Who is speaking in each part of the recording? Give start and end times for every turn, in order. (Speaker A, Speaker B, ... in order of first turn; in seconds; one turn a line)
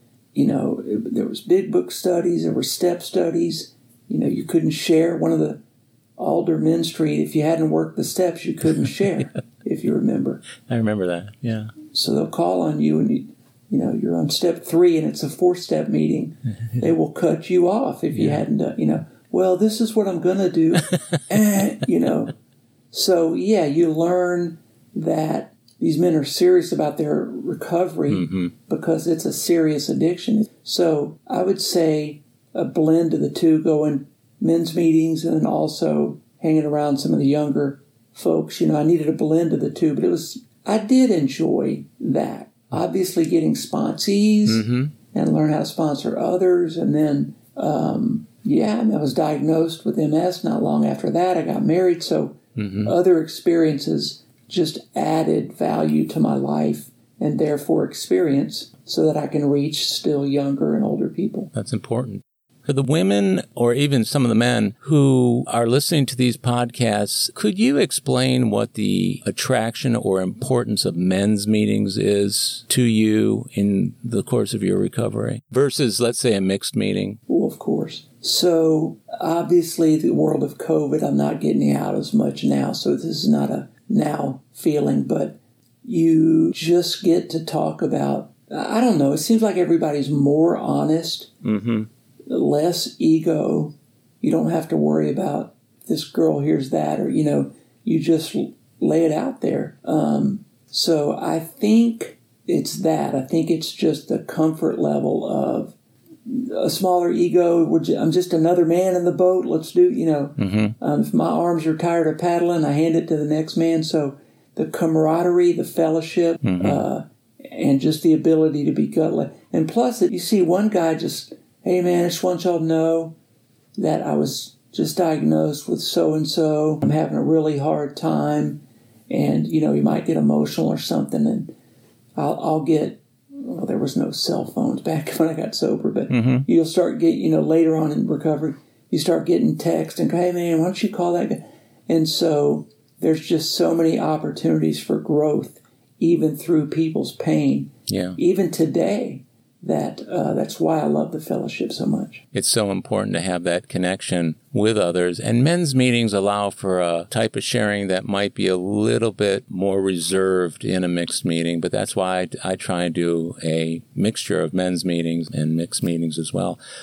Speaker A: 0.3-5.6
Speaker A: 6.2-10.4
Speaker B: 10.6-11.8
Speaker A: 11.9-22.3
Speaker B: 18.1-18.4
Speaker B: 20.9-21.1
Speaker A: 22.9-61.5
Speaker B: 28.1-28.5
Speaker B: 44.5-44.9
Speaker B: 52.6-52.9
Speaker B: 61.5-77.2
Speaker A: 77.3-91.3
Speaker B: 91.4-91.9
Speaker A: 92.3-123.2
Speaker B: 110.4-110.8
Speaker B: 116.4-116.8
Speaker A: 123.8-131.5
Speaker A: 132.2-152.2
Speaker B: 136.1-136.5
Speaker B: 147.9-148.2
Speaker B: 152.3-166.6